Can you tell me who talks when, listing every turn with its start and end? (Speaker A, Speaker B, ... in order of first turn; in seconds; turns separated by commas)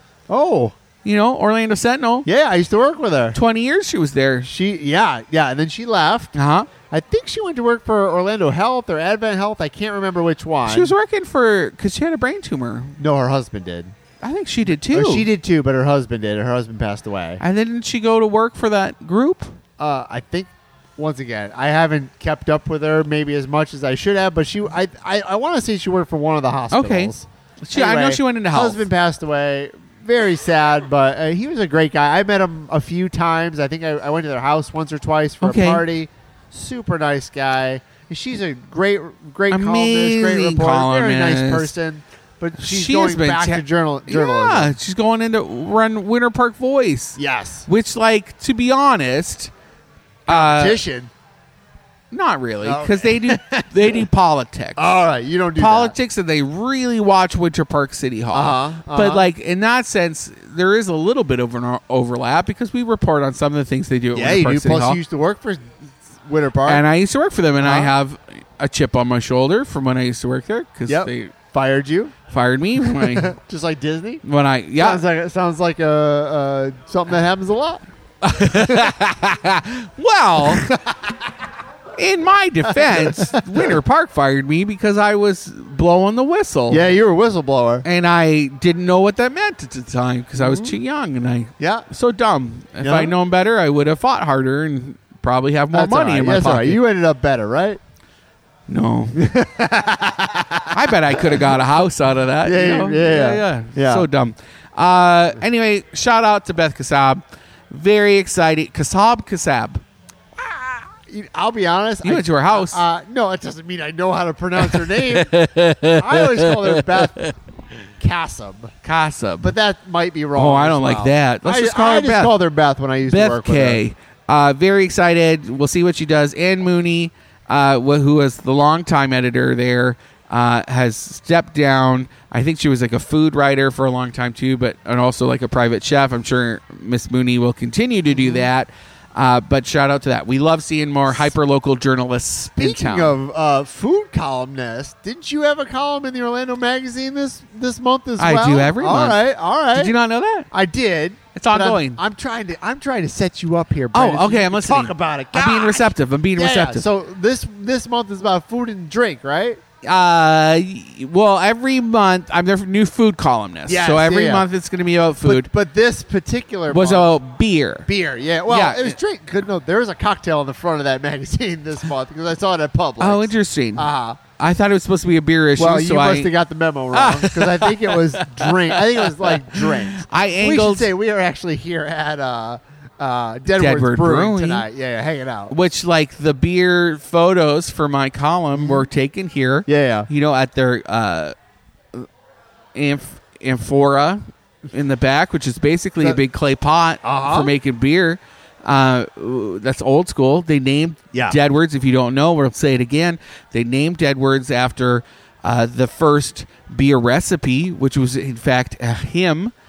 Speaker A: 0.3-0.7, Speaker B: 1.0-2.3, Speaker A: 2.2-3.4, Speaker B: 3.3-4.5, Speaker A: 4.4-6.3, Speaker B: 6.3-6.7, Speaker A: 6.9-10.9, Speaker B: 10.7-13.0, Speaker A: 13.0-13.9, Speaker B: 14.2-15.3, Speaker A: 14.9-17.4, Speaker B: 17.4-19.5, Speaker A: 19.8-44.7, Speaker B: 26.7-27.1, Speaker B: 27.6-28.8, Speaker B: 35.4-35.8, Speaker B: 39.5-41.7, Speaker B: 42.6-49.5, Speaker A: 47.2-47.7, Speaker B: 50.3-50.8, Speaker A: 50.3-51.1, Speaker B: 52.1-54.9, Speaker A: 52.6-54.0, Speaker A: 54.8-55.9, Speaker B: 55.6-65.0, Speaker A: 58.3-59.2, Speaker A: 64.1-65.6, Speaker A: 66.2-66.8, Speaker B: 66.7-71.3, Speaker A: 67.6-67.9, Speaker A: 70.9-72.1, Speaker B: 72.3-73.3, Speaker A: 72.8-74.2, Speaker B: 74.2-75.0, Speaker A: 74.8-77.8, Speaker B: 78.2-80.7, Speaker A: 78.5-78.9, Speaker A: 80.4-81.2, Speaker B: 82.0-86.9, Speaker A: 82.7-83.8, Speaker A: 86.7-87.8, Speaker B: 87.8-96.8, Speaker A: 90.4-90.7, Speaker A: 91.6-91.8, Speaker A: 92.8-93.1, Speaker A: 95.7-97.8, Speaker B: 98.7-99.2, Speaker A: 99.1-101.4, Speaker B: 100.7-109.8, Speaker A: 102.4-104.0, Speaker A: 110.3-115.3, Speaker B: 112.0-112.8, Speaker B: 114.6-117.3, Speaker A: 116.0-117.3, Speaker A: 118.0-118.7, Speaker B: 118.8-119.5, Speaker A: 119.4-123.8, Speaker B: 120.3-122.3, Speaker B: 123.0-143.1, Speaker A: 138.1-138.5, Speaker A: 142.6-149.9, Speaker B: 148.2-149.2, Speaker B: 149.7-150.5, Speaker A: 150.5-159.6, Speaker B: 151.3-152.0, Speaker B: 153.9-156.8, Speaker B: 159.8-165.5, Speaker A: 163.7-164.4, Speaker A: 165.2-167.1, Speaker B: 166.7-167.9, Speaker A: 167.8-174.2, Speaker B: 168.5-168.9, Speaker B: 173.0-176.3, Speaker A: 175.6-185.5, Speaker B: 176.9-180.9, Speaker B: 183.6-184.7, Speaker B: 185.5-191.3, Speaker A: 188.6-188.8, Speaker A: 189.7-190.1, Speaker B: 192.7-209.5, Speaker A: 197.0-197.5